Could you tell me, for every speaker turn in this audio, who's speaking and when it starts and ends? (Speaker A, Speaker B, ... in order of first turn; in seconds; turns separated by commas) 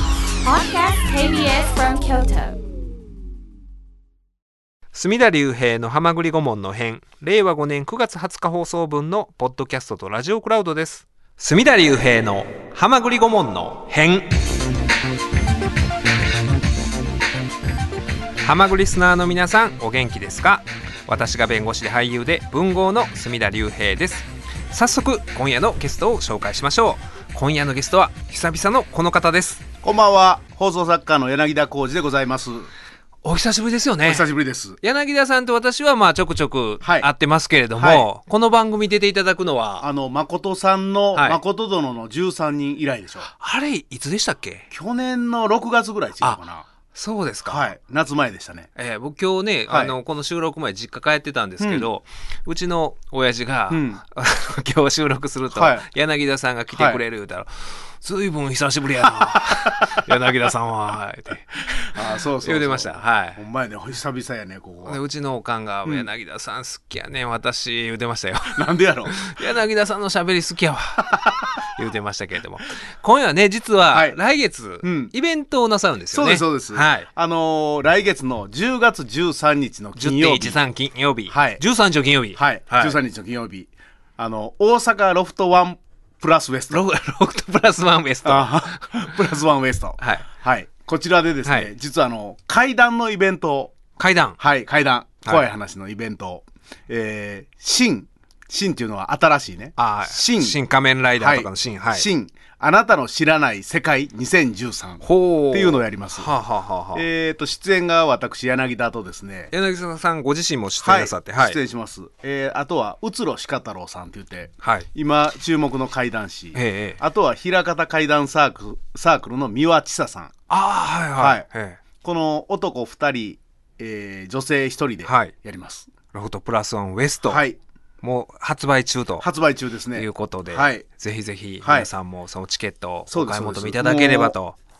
Speaker A: 0.4-2.6, Speaker B: 4.9-14.5, Speaker B: 18.4-29.6, Speaker C: 29.8-32.7, Speaker B: 33.2-34.3, Speaker C: 34.0-34.8, Speaker B: 34.8-39.9, Speaker C: 36.8-37.1, Speaker C: 37.8-38.0, Speaker C: 39.8-43.3, Speaker B: 41.1-41.4, Speaker B: 43.2-44.7, Speaker C: 44.7-46.6, Speaker B: 46.9-47.7, Speaker C: 47.5-48.7, Speaker B: 48.8-63.4, Speaker C: 49.7-49.9, Speaker C: 51.6-51.9, Speaker C: 53.7-54.0, Speaker C: 55.5-55.9, Speaker C: 56.7-57.0, Speaker C: 59.0-60.0, Speaker C: 61.8-65.0, Speaker B: 64.8-77.1, Speaker C: 68.5-69.2, Speaker C: 71.1-71.5, Speaker C: 73.9-74.2, Speaker C: 74.8-75.1, Speaker C: 76.1-80.6, Speaker B: 80.0-83.0, Speaker C: 81.3-81.6, Speaker C: 82.3-86.8, Speaker B: 86.7-89.4, Speaker C: 88.2-93.7, Speaker B: 90.0-90.2, Speaker B: 91.4-91.7, Speaker B: 94.0-94.4, Speaker C: 94.4-100.6, Speaker B: 99.8-102.1, Speaker C: 101.2-106.3, Speaker B: 105.0-107.0, Speaker C: 106.9-109.5, Speaker B: 109.5-111.6, Speaker C: 110.8-120.3, Speaker B: 114.6-114.9, Speaker B: 116.5-117.0, Speaker B: 120.5-121.8, Speaker C: 121.2-121.5, Speaker C: 122.0-125.9, Speaker B: 125.0-125.3, Speaker B: 126.1-127.4, Speaker C: 127.2-127.6, Speaker B: 128.0-129.3, Speaker C: 129.2-130.8, Speaker B: 129.9-134.6, Speaker C: 131.6-131.9, Speaker C: 133.1-134.3